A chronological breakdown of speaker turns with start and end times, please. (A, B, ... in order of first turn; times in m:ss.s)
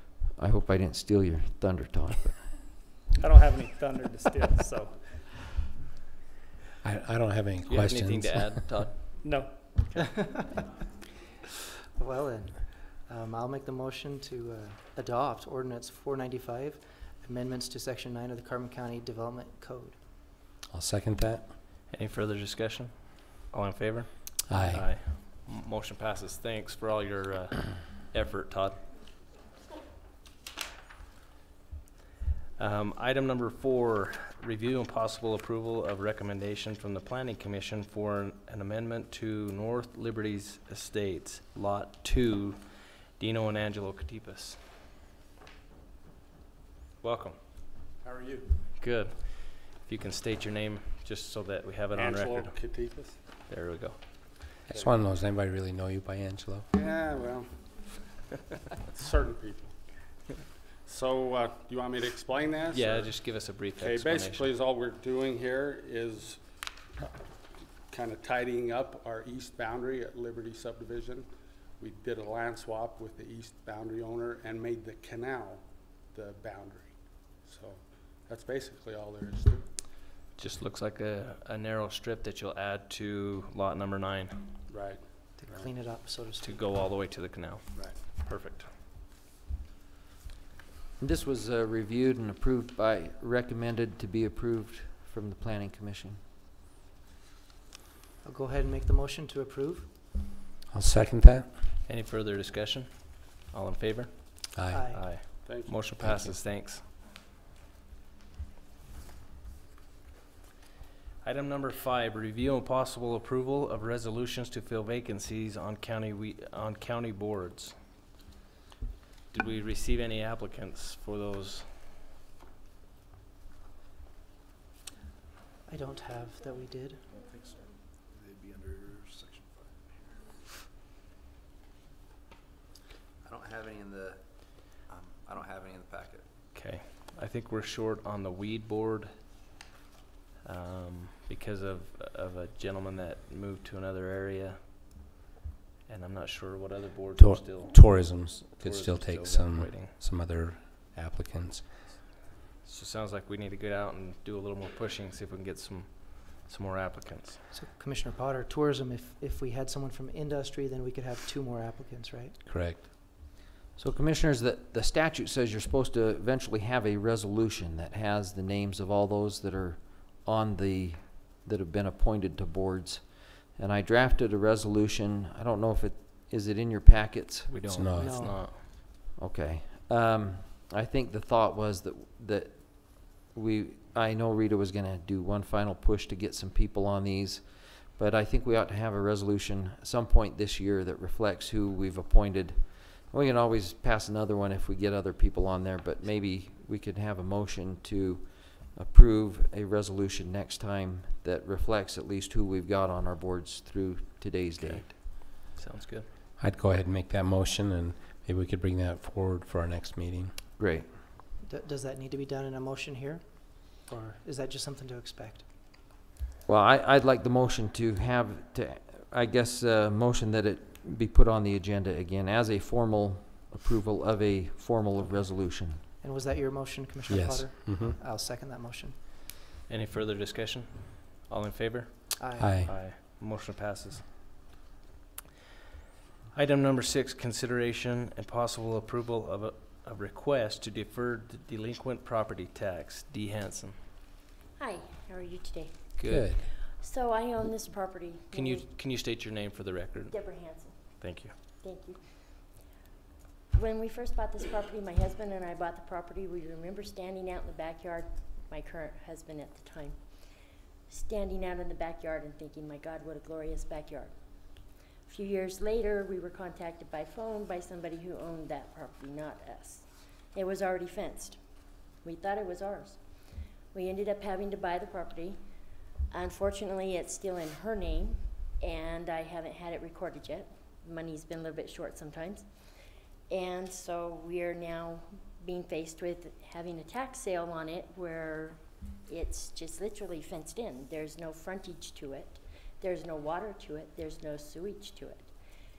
0:00.4-0:02.5 A
0:03.2-0:05.3 B
0:06.8-0:08.6 C
0:07.6-0:09.1 D
0:09.2-0:10.2 B
0:10.1-0:10.4 E
0:12.0-0:20.0 E
0:20.7-0:21.5 C
0:21.9-0:28.8 D
0:24.5-0:24.9 C
0:32.6-0:44.6 D
0:47.0-0:47.4 D
0:48.0-0:48.5 F
0:48.8-0:52.6 D
0:51.9-0:53.2 F
0:53.5-0:54.0 D
0:54.7-0:56.6 C
0:56.7-0:57.6 F
0:58.9-0:59.7 F
1:00.8-1:03.1 F
1:02.7-1:04.5 D
1:03.8-1:06.4 F
1:07.9-1:11.3 F
1:11.8-1:19.6 F
1:20.4-1:24.6 D
1:24.7-1:25.6 F
1:25.4-1:26.9 E
1:26.4-1:28.7 D
1:27.7-1:28.0 F
1:31.0-1:36.2 A
1:38.2-1:39.9 E
1:40.7-1:41.5 C
1:41.8-1:46.8 D
1:44.5-1:44.8 C
1:44.7-1:45.2 E
1:45.4-1:46.0 F
1:46.0-1:46.4 C
1:51.2-1:57.7 D
1:59.3-2:01.6 D
2:05.7-2:07.0 E
2:07.2-2:10.3 G
2:13.2-2:14.2 G
2:14.9-2:16.2 G
2:16.5-2:19.1 D
2:20.4-2:24.6 D
2:25.9-2:29.9 D
2:27.2-2:31.7 C
2:32.6-2:37.4 D
2:37.5-2:42.4 E
2:42.4-2:42.8 C
2:43.8-2:57.5 A
2:57.5-2:58.6 D
2:57.7-2:58.1 C
2:58.0-2:58.4 E
2:58.4-3:24.8 A
3:24.6-3:26.1 D
3:26.4-3:30.3 C
3:30.6-3:30.8 A
3:31.4-3:35.4 E
3:36.5-3:45.8 A
3:46.0-3:49.0 E
3:47.1-3:48.0 C
3:49.7-3:54.0 D
3:52.2-3:52.6 E
3:52.4-3:52.7 C
3:56.3-4:03.8 D
4:04.6-4:08.7 H
4:06.0-4:06.4 D
4:06.1-4:06.4 C
4:08.3-4:10.4 D
4:10.1-4:10.9 H
4:11.0-4:11.3 D
4:11.6-4:12.0 H
4:13.5-4:20.0 H
4:20.9-4:24.1 H
4:25.1-4:31.4 H
4:32.0-4:33.0 H
4:33.7-4:35.4 H
4:36.1-4:42.4 H
4:43.3-4:55.3 H